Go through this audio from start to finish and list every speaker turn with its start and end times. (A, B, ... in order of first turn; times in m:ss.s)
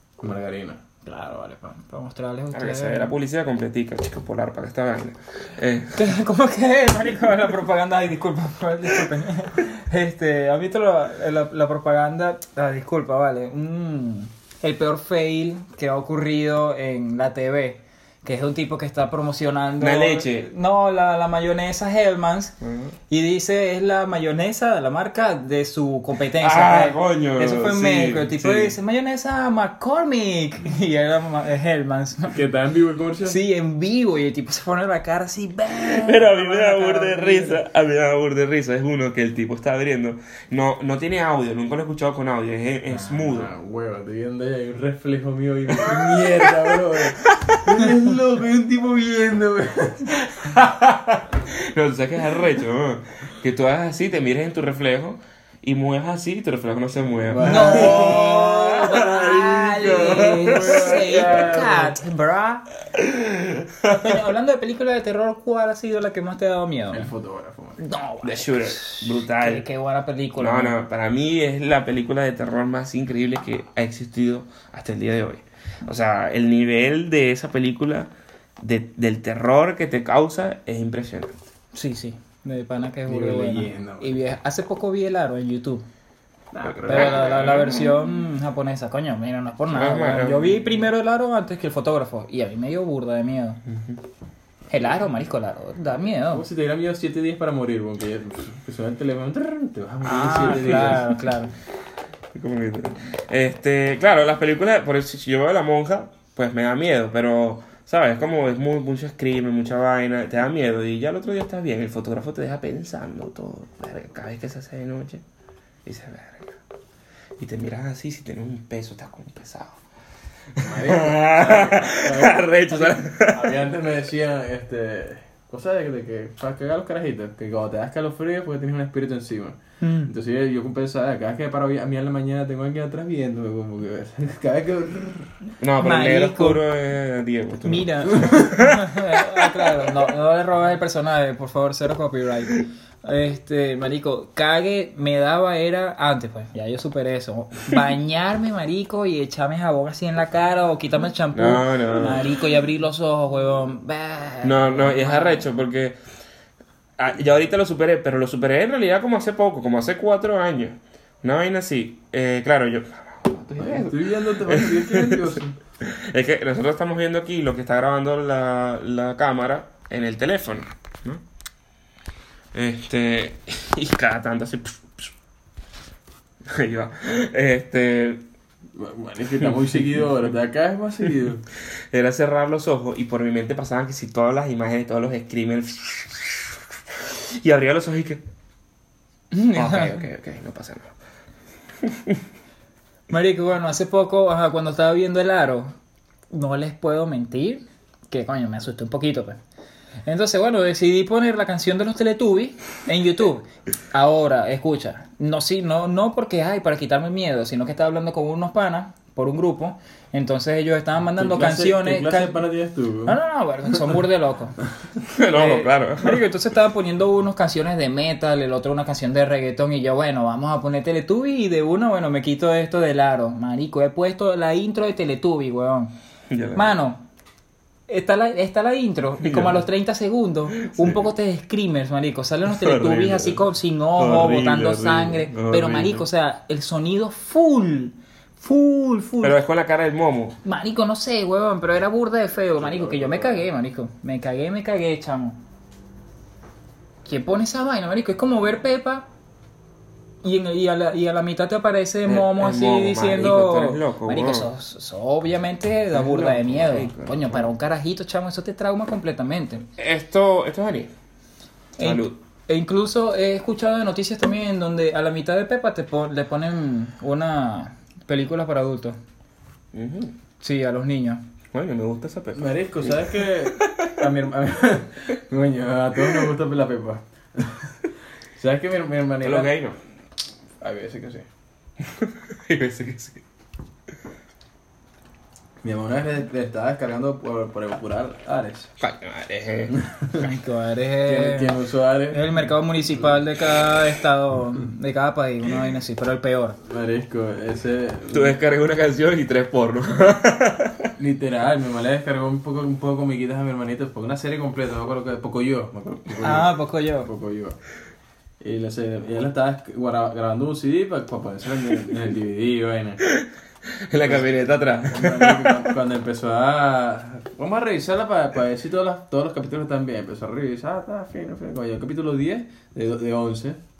0:00.2-0:00.8 A
0:01.0-0:03.1 B
0:02.5-0:06.1 C
0:05.9-0:22.5 B
0:19.8-0:20.5 C
0:22.6-0:22.9 C
0:23.1-0:32.4 B
0:26.4-0:28.8 C
0:32.3-0:33.4 A
0:33.2-0:37.6 B
0:35.8-0:43.5 C
0:43.1-0:50.1 A
0:45.8-0:46.5 C
0:47.2-0:47.6 C
0:50.1-1:01.4 C
0:57.3-0:58.2 A
0:57.4-1:02.6 B
1:00.4-1:01.9 A
1:02.9-1:04.1 C
1:03.9-1:07.1 B
1:06.9-1:07.8 A
1:07.8-1:10.8 B
1:08.2-1:09.6 C
1:10.4-1:21.4 C
1:21.7-1:25.8 B
1:23.0-1:24.2 A
1:26.5-1:27.9 A
1:26.6-1:28.0 C
1:26.8-1:33.6 B
1:29.7-1:30.8 C
1:33.7-1:34.0 C
1:34.7-1:36.4 B
1:36.3-1:41.2 A
1:40.0-1:41.5 B
1:42.3-1:55.2 C
1:55.8-1:56.6 C
1:57.4-1:59.8 C
2:00.6-2:03.6 C
2:00.6-2:15.3 A
2:09.8-2:10.1 B
2:15.6-2:18.8 C
2:15.8-2:16.6 B
2:17.6-2:35.4 B
2:19.4-2:19.9 C
2:31.3-2:32.3 C
2:34.4-2:36.0 C
2:37.0-2:51.2 C
2:43.6-2:45.6 A
2:52.5-2:55.1 C
2:56.4-2:58.2 C
2:58.7-3:01.4 A
3:01.9-3:08.2 C
3:09.3-3:10.0 B
3:09.5-3:10.9 C
3:11.8-3:12.2 C
3:13.1-3:15.7 B
3:16.3-3:19.4 B
3:20.0-3:32.4 B
3:31.2-3:33.2 A
3:33.0-3:34.6 B
3:35.1-3:36.2 C
3:35.2-3:45.9 B
3:46.3-3:46.7 C
3:46.5-3:47.0 B
3:47.9-3:59.4 B
3:49.2-3:49.6 C
3:50.6-3:51.1 C
3:52.4-3:53.4 C
3:54.0-3:56.0 C
3:54.2-3:55.0 A
3:59.2-4:00.4 C
4:00.4-4:05.4 B
4:02.6-4:03.4 A
4:07.0-4:09.1 B
4:10.2-4:19.6 B
4:12.0-4:14.5 C
4:15.9-4:17.5 C
4:19.8-4:20.9 C
4:21.8-4:29.0 B
4:21.8-4:22.2 C
4:29.7-4:30.1 C
4:30.4-4:31.2 B
4:31.5-4:34.0 C
4:32.3-4:37.7 A
4:38.3-4:39.5 A
4:39.2-4:39.8 C
4:40.6-4:41.2 A
4:41.8-4:43.2 C
4:45.6-4:48.7 A
4:48.8-4:49.7 C
4:49.7-4:50.2 A
4:50.2-4:51.6 B
4:51.0-4:52.2 A
4:52.1-4:56.6 B
4:56.6-4:58.4 A
4:58.1-5:00.9 C
5:01.0-5:07.6 A
5:06.2-5:07.1 B
5:08.4-5:13.1 A
5:13.2-5:15.7 C
5:14.0-5:23.6 A